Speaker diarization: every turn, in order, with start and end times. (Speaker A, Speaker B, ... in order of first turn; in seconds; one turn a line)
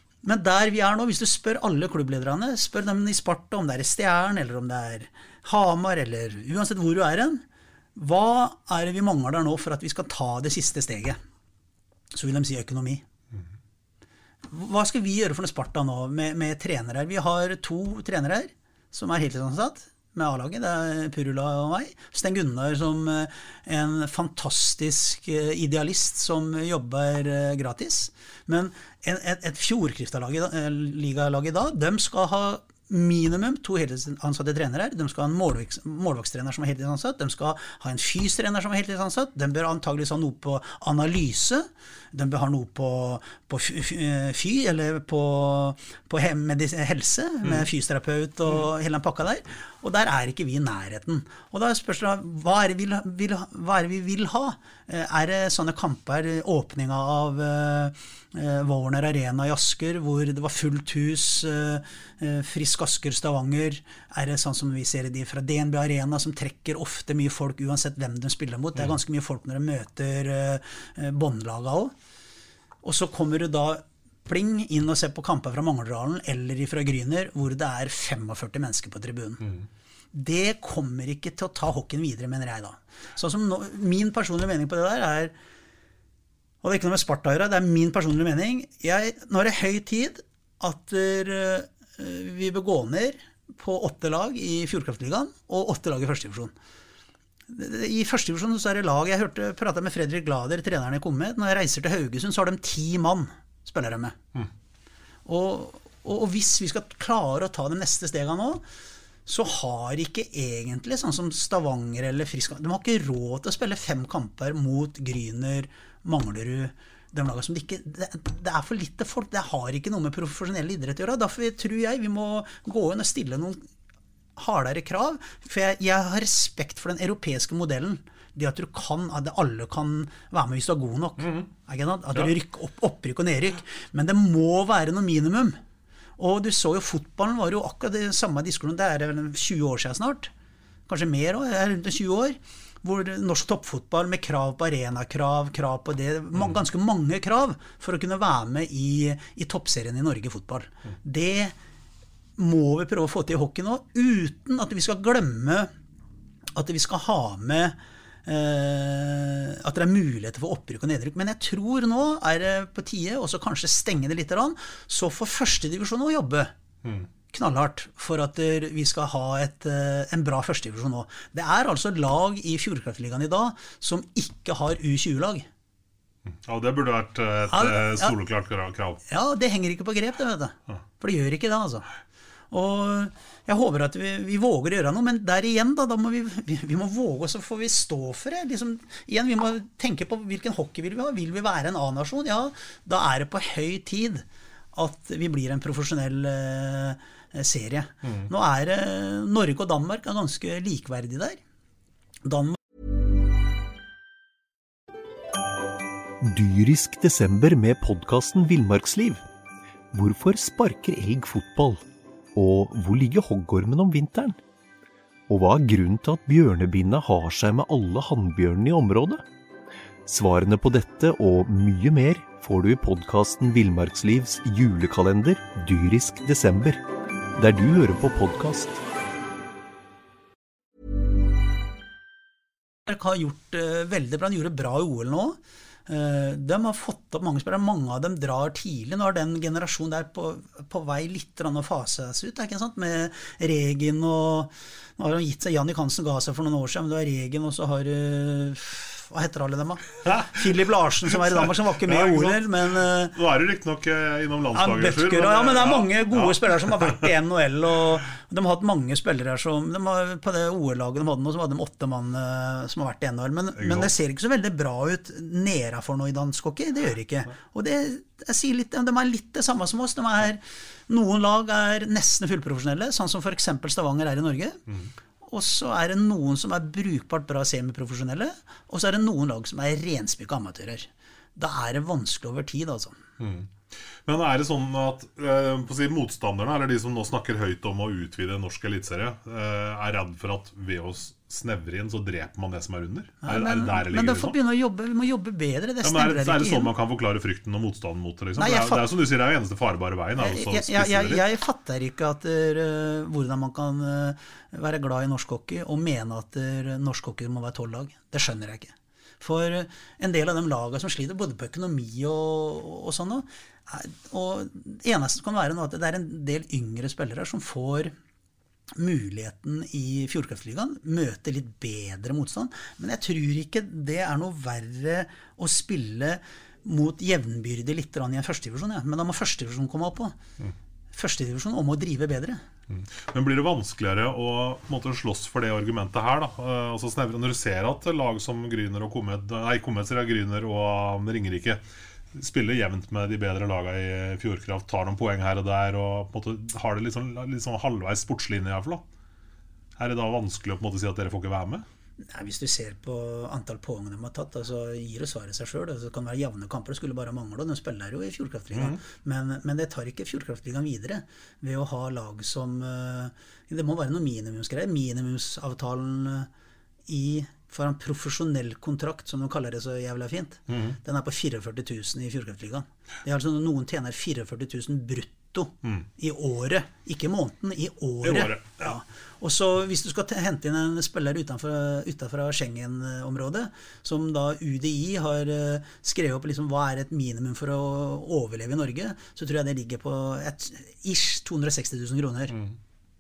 Speaker A: 0.2-7.4
Speaker A: 8.0-11.2
Speaker A: 12.1-13.0
Speaker A: 14.5-71.9
Speaker A: 72.8-79.5
Speaker A: 80.1-85.3
Speaker A: 86.6-96.5
Speaker A: 97.5-104.2
Speaker A: 105.3-108.6
Speaker A: 109.3-123.7
Speaker A: 124.4-135.6
Speaker B: 131.2-131.5
Speaker A: 136.2-140.3
Speaker A: 140.9-151.6
Speaker A: 152.4-155.7
Speaker A: 156.6-166.5
Speaker A: 167.3-175.5
Speaker B: 176.3-179.0
Speaker A: 177.5-178.1
Speaker A: 179.1-181.9
Speaker A: 182.5-201.4
Speaker A: 202.2-202.6
Speaker C: 206.2-209.2
Speaker C: 209.9-211.8
Speaker C: 212.3-214.4
Speaker C: 215.3-219.2
Speaker C: 220.1-226.8
Speaker C: 227.4-228.8
Speaker A: 232.9-253.2
Speaker B: 250.1-250.5
Speaker B: 251.1-257.0
Speaker A: 254.6-274.6
Speaker B: 263.6-263.9
Speaker A: 275.2-283.0
Speaker B: 283.2-294.4
Speaker A: 293.2-296.7
Speaker B: 295.8-301.2
Speaker A: 298.4-298.9
Speaker A: 300.2-317.9
Speaker A: 318.8-330.2
Speaker A: 330.9-332.4
Speaker B: 332.7-341.6
Speaker B: 342.1-348.8
Speaker B: 349.8-351.6
Speaker A: 352.0-366.3
Speaker B: 358.5-358.8
Speaker A: 366.9-392.4
Speaker B: 370.5-370.8
Speaker B: 378.0-378.8